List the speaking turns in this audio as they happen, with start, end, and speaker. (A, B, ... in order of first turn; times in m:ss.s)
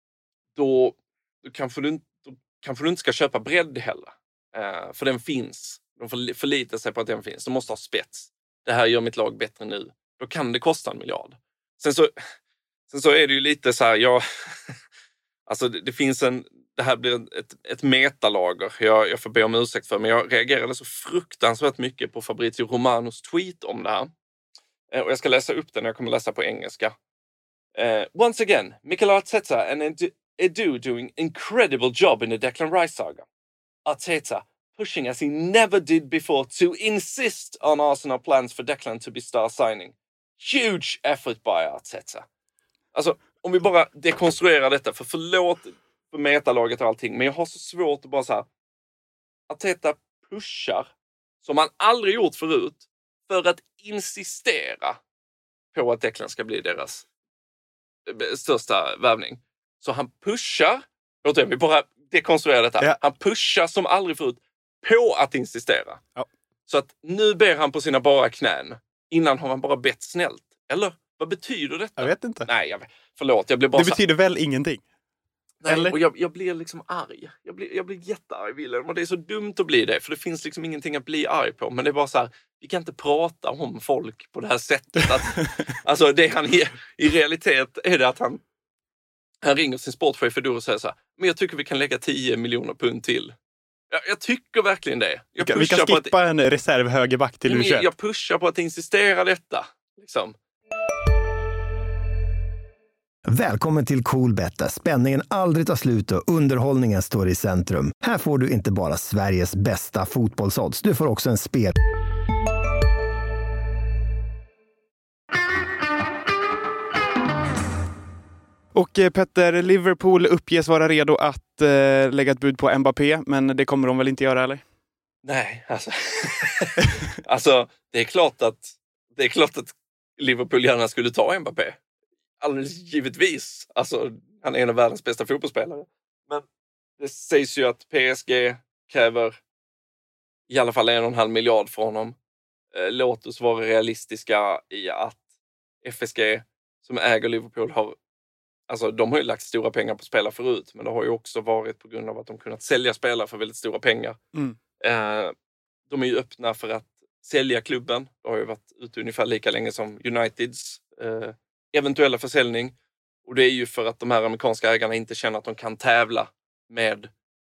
0:00.6-0:12.1 A
0:12.9-0:14.8 A
0:15.5-0:24.1 A
0:24.9-0:26.9 A
0:27.8-0:33.2 A
0:33.9-0:42.2 A
0:42.9-0:48.5 A
0:49.5-0:50.9 A
0:51.4-0:55.0 A
0:55.7-0:57.1 A
0:58.1-1:06.0 A
1:06.7-1:14.0 A
1:12.0-1:12.5 B
1:13.7-1:14.8 B
1:15.6-1:28.4 A
1:15.6-1:16.0 B
1:29.4-1:33.3 A
1:33.9-1:36.1 A
1:35.4-1:37.9 B
1:37.4-1:40.4 A
1:43.3-1:51.7 C
1:58.7-2:04.6 B
2:05.2-2:11.8 A
2:12.4-2:16.5 A
2:17.0-2:19.4 A
2:20.5-2:22.2 A
2:22.7-2:25.2 A
2:25.8-2:28.0 A
2:28.7-2:34.2 A
2:34.8-2:35.3 A
2:35.9-2:42.7 A
2:43.2-2:47.1 A